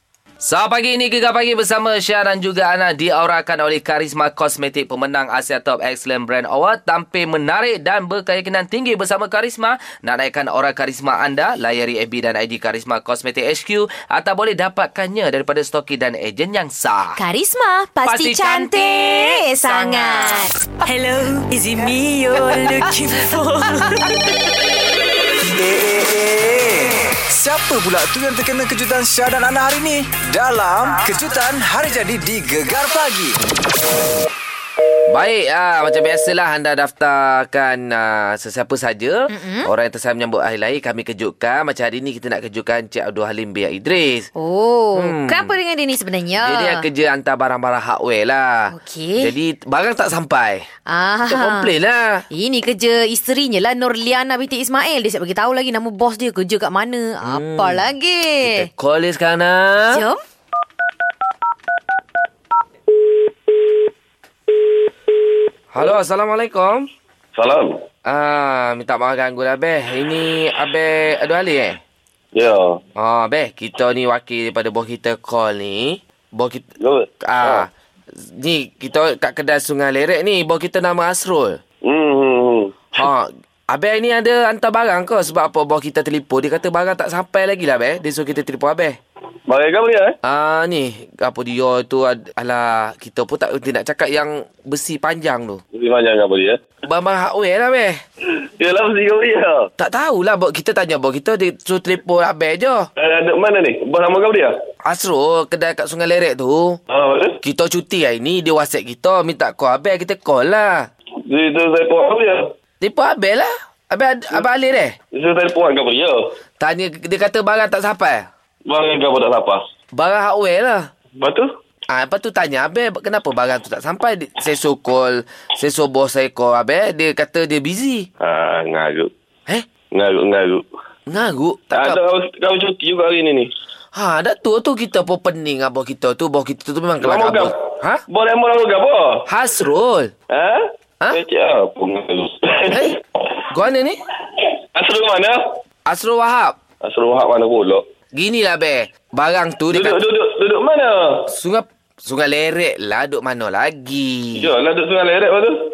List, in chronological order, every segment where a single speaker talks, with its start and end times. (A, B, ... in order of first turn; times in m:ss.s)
0:00.4-0:17.2 A
0:17.2-0:20.5 B
0:18.1-0:20.5 A
0:20.9-0:24.1 C
0:25.5-0:33.4 D
0:35.1-0:44.3 A
0:39.3-0:39.7 B
0:44.3-0:46.7 B
0:45.0-0:45.5 A
0:46.4-0:48.7 A
0:48.7-0:49.2 B
0:49.2-0:50.7 A
0:50.9-0:51.7 B
0:51.3-0:52.2 A
0:52.3-0:58.5 B
0:57.2-0:57.8 A
0:58.4-1:00.0 A
1:05.7-1:06.9 A
1:07.3-1:07.8 E
1:08.1-1:11.8 A
1:12.3-1:12.8 E
1:13.0-1:16.7 A
1:16.8-1:17.7 E
1:17.2-1:21.6 A
1:21.8-1:23.1 E
1:23.0-1:29.0 A
1:29.5-1:30.2 E
1:30.2-1:35.6 A
1:35.8-1:36.6 E
1:36.9-1:38.0 A
1:38.6-1:39.6 E
1:39.8-1:42.9 A
1:43.0-1:44.6 E
1:44.8-1:46.8 A
1:46.9-1:47.3 E
1:47.4-1:50.9 A
1:51.3-1:52.4 E
1:52.8-1:55.0 A
1:55.1-1:56.2 E
1:56.6-1:58.3 A
1:58.7-1:59.6 E
1:59.9-2:00.9 A
2:01.2-2:01.5 E
2:01.9-2:08.1 A
2:08.2-2:09.1 E
2:09.9-2:10.6 E
2:11.1-2:12.0 A
2:11.7-2:13.5 E
2:13.9-2:18.0 A
2:17.0-2:17.5 E
2:18.1-2:19.2 E
2:19.3-2:20.1 A
2:20.3-2:22.9 E
2:22.7-2:22.9 A
2:23.5-2:24.0 A
2:24.8-2:25.4 E
2:25.8-2:26.6 A
2:26.8-2:27.8 E
2:28.1-2:30.0 A
2:29.7-2:31.2 E
2:31.3-2:34.5 A
2:34.3-2:35.6 E